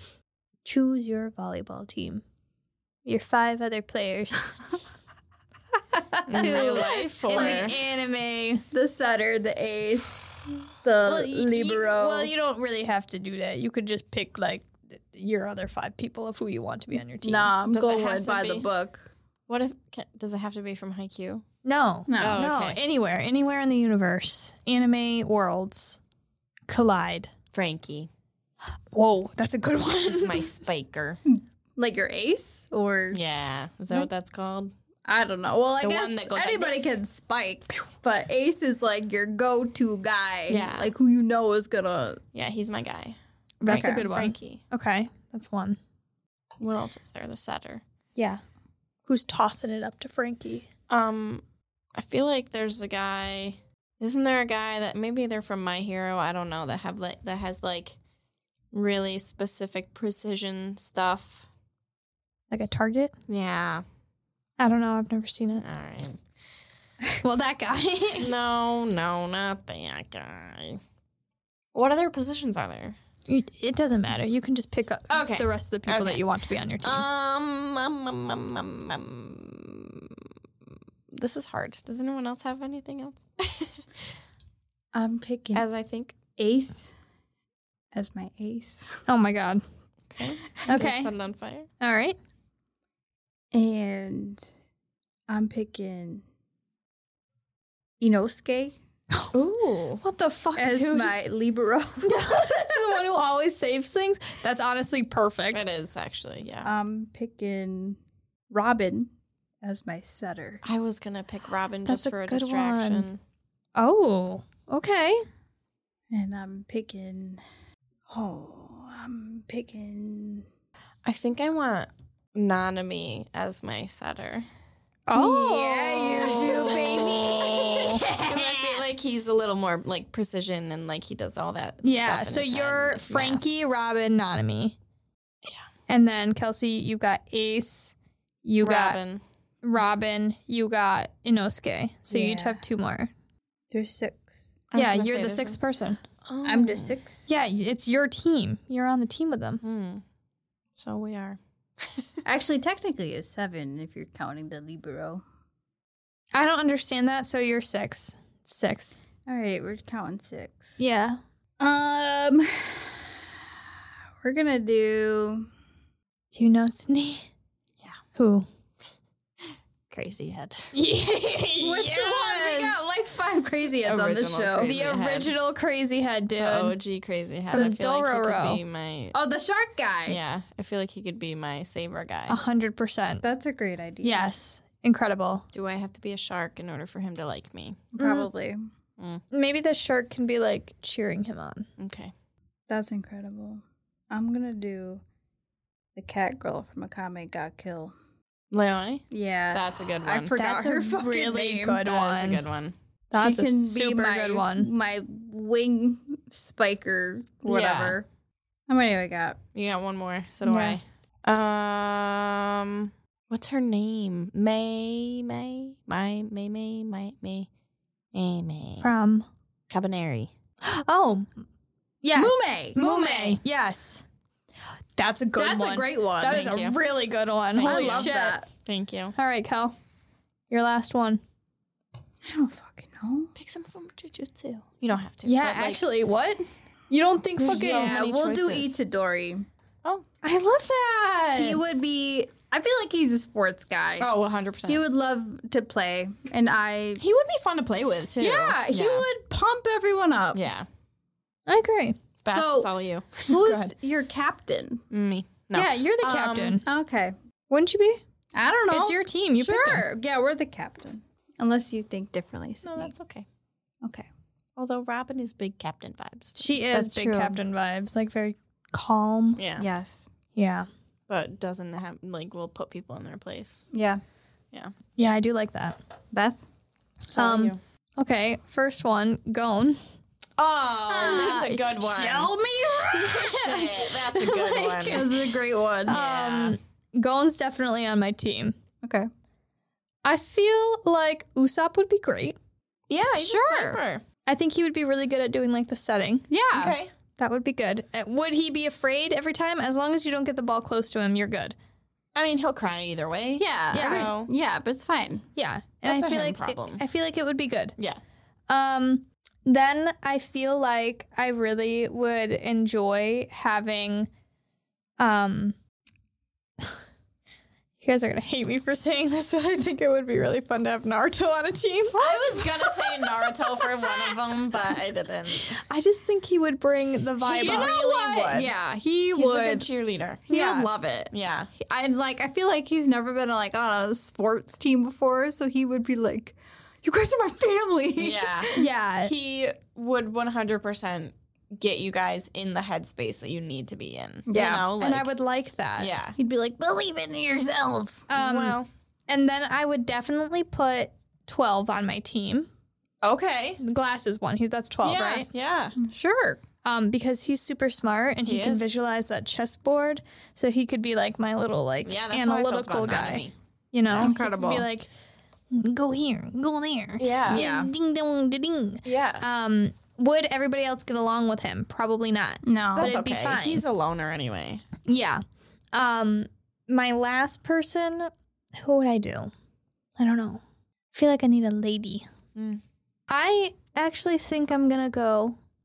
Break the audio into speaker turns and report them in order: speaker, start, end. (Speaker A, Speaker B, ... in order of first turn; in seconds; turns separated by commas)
Speaker A: 0.7-2.2, Speaker A: 3.1-4.6, Speaker B: 5.9-7.7, Speaker C: 6.3-7.8, Speaker A: 6.3-8.6, Speaker B: 8.7-12.3, Speaker A: 11.1-17.5, Speaker B: 17.2-19.1, Speaker C: 17.7-18.7, Speaker C: 19.5-21.4, Speaker A: 21.6-26.0, Speaker B: 22.1-22.4, Speaker C: 22.2-22.8, Speaker A: 26.7-27.3, Speaker C: 27.5-28.1, Speaker A: 28.9-30.6, Speaker C: 29.9-31.2, Speaker B: 31.3-33.2, Speaker C: 33.1-34.7, Speaker B: 35.1-42.2, Speaker C: 35.8-36.8, Speaker C: 40.5-40.9, Speaker C: 42.3-44.6, Speaker A: 43.6-45.8, Speaker C: 46.6-47.8, Speaker A: 48.2-48.4, Speaker A: 49.1-50.7, Speaker C: 50.9-51.4, Speaker C: 52.0-58.0, Speaker C: 58.7-61.5, Speaker A: 62.5-63.1, Speaker C: 63.3-63.8, Speaker A: 64.6-65.6, Speaker C: 65.6-66.2, Speaker A: 67.2-68.4, Speaker C: 68.2-70.8, Speaker C: 71.7-73.0, Speaker A: 73.3-77.1, Speaker C: 75.1-76.2, Speaker C: 76.8-80.2, Speaker C: 81.1-83.8, Speaker B: 84.9-85.7, Speaker C: 85.5-86.2, Speaker B: 86.4-86.9, Speaker B: 87.9-89.0, Speaker A: 89.1-89.6, Speaker C: 90.1-91.7, Speaker A: 90.7-91.1, Speaker A: 91.8-92.2, Speaker B: 93.5-94.5, Speaker B: 95.3-96.2, Speaker B: 98.0-98.8, Speaker C: 99.3-100.0, Speaker A: 99.9-101.1, Speaker B: 100.6-102.8, Speaker A: 102.0-105.7, Speaker C: 105.5-106.7, Speaker B: 106.6-108.0, Speaker B: 108.5-109.1, Speaker B: 109.6-110.6, Speaker C: 110.6-113.2, Speaker A: 111.9-113.1, Speaker A: 113.8-115.2, Speaker B: 116.1-117.4, Speaker B: 118.1-120.5, Speaker C: 121.0-124.5, Speaker A: 125.1-128.0, Speaker B: 125.1-128.8, Speaker C: 126.5-133.4, Speaker A: 131.8-134.8, Speaker A: 135.9-139.0, Speaker C: 138.6-139.2, Speaker A: 139.6-143.1, Speaker B: 142.1-142.6, Speaker B: 143.7-144.2, Speaker C: 144.7-145.6, Speaker A: 144.8-146.0, Speaker C: 146.2-147.0, Speaker B: 146.4-147.3, Speaker A: 147.3-149.6, Speaker C: 149.6-150.0, Speaker C: 150.8-152.1, Speaker B: 152.2-155.2, Speaker A: 156.3-159.0, Speaker B: 159.3-160.8, Speaker A: 160.8-161.2, Speaker B: 161.6-163.2, Speaker B: 164.2-165.5, Speaker A: 166.3-167.3, Speaker A: 168.2-168.5, Speaker C: 169.9-170.6, Speaker A: 170.7-172.8, Speaker B: 171.6-174.8, Speaker C: 173.8-175.3, Speaker A: 174.6-176.8, Speaker C: 176.3-179.2, Speaker A: 177.5-178.6, Speaker B: 179.1-180.2, Speaker C: 180.1-182.4, Speaker A: 182.3-183.2, Speaker B: 183.2-184.3, Speaker A: 184.0-185.4, Speaker C: 185.5-187.9, Speaker B: 187.9-188.7, Speaker A: 188.0-188.3, Speaker A: 189.3-191.7, Speaker C: 191.8-192.1, Speaker B: 192.7-195.0, Speaker B: 196.0-197.9, Speaker C: 198.5-200.3, Speaker B: 199.1-201.8, Speaker A: 200.4-202.4, Speaker C: 201.8-202.8, Speaker A: 203.1-204.7, Speaker B: 203.2-208.1, Speaker C: 207.5-208.0, Speaker B: 208.7-209.4, Speaker C: 209.6-217.5, Speaker A: 210.5-210.8, Speaker C: 218.1-218.9, Speaker A: 218.8-219.3, Speaker C: 219.7-220.3, Speaker A: 220.6-221.3, Speaker A: 222.0-224.0, Speaker B: 222.2-223.3, Speaker C: 222.8-223.4, Speaker A: 225.0-228.4, Speaker B: 225.4-226.5, Speaker C: 226.2-226.8, Speaker C: 227.6-229.2, Speaker B: 227.6-228.5, Speaker A: 229.2-229.7, Speaker A: 230.5-231.2, Speaker B: 232.2-233.3, Speaker C: 233.4-235.8, Speaker A: 235.2-238.0, Speaker C: 237.4-238.8, Speaker B: 237.5-239.4, Speaker A: 240.2-241.6, Speaker B: 241.3-244.1, Speaker C: 244.0-244.8, Speaker B: 244.7-247.0, Speaker C: 247.0-249.1, Speaker B: 248.2-250.4, Speaker C: 250.3-250.7, Speaker A: 251.5-252.0, Speaker C: 252.2-253.7, Speaker B: 252.3-254.8, Speaker C: 254.9-256.6, Speaker A: 255.5-256.6, Speaker B: 256.6-257.1, Speaker A: 257.5-258.0, Speaker B: 258.4-262.9, Speaker A: 258.7-259.9, Speaker C: 262.6-263.3, Speaker C: 264.6-266.4, Speaker A: 266.4-269.4, Speaker B: 266.7-267.4, Speaker C: 269.4-269.7, Speaker B: 269.6-270.1, Speaker A: 270.4-270.7, Speaker C: 271.1-273.7, Speaker B: 273.7-274.0, Speaker A: 275.0-275.8, Speaker B: 276.1-276.4, Speaker A: 277.1-279.8, Speaker C: 277.1-277.6, Speaker C: 280.4-282.3, Speaker B: 280.9-283.8, Speaker A: 281.0-281.7, Speaker C: 282.9-285.1, Speaker A: 284.1-285.2, Speaker B: 284.9-286.0, Speaker A: 285.9-288.5, Speaker C: 285.9-286.6, Speaker B: 288.8-289.1, Speaker A: 290.1-292.4, Speaker C: 292.9-294.0, Speaker B: 293.2-293.8, Speaker A: 294.3-296.3, Speaker B: 296.3-296.8, Speaker C: 296.5-296.9, Speaker A: 297.2-301.6, Speaker C: 302.1-304.3, Speaker B: 303.4-305.2, Speaker A: 303.7-304.1, Speaker A: 305.4-307.8, Speaker C: 305.9-306.8, Speaker A: 308.5-314.1, Speaker A: 315.0-315.6, Speaker A: 317.8-324.2, Speaker C: 322.0-325.6, Speaker A: 325.3-327.8, Speaker C: 327.3-328.5, Speaker B: 327.3-329.7, Speaker C: 329.1-330.3, Speaker B: 330.3-338.7, Speaker A: 330.3-330.7, Speaker C: 331.1-331.5, Speaker C: 338.0-345.1, Speaker A: 338.5-339.1, Speaker B: 344.3-344.7, Speaker A: 344.8-345.9, Speaker C: 345.8-346.2, Speaker B: 346.2-348.1, Speaker A: 348.1-348.6, Speaker C: 348.1-348.7, Speaker A: 349.1-352.5, Speaker C: 353.0-353.6, Speaker A: 353.6-355.3, Speaker C: 354.8-355.8, Speaker B: 355.8-356.4, Speaker A: 356.6-364.9, Speaker C: 358.2-358.7, Speaker C: 361.8-363.3, Speaker C: 363.9-364.1, Speaker B: 364.0-364.7, Speaker A: 365.5-373.6, Speaker C: 367.0-367.4, Speaker B: 367.3-367.7, Speaker C: 368.8-369.3, Speaker B: 372.4-372.9, Speaker C: 372.8-374.6, Speaker A: 374.9-379.3, Speaker A: 380.0-380.4, Speaker A: 380.9-382.1, Speaker C: 382.4-382.6, Speaker A: 383.1-385.4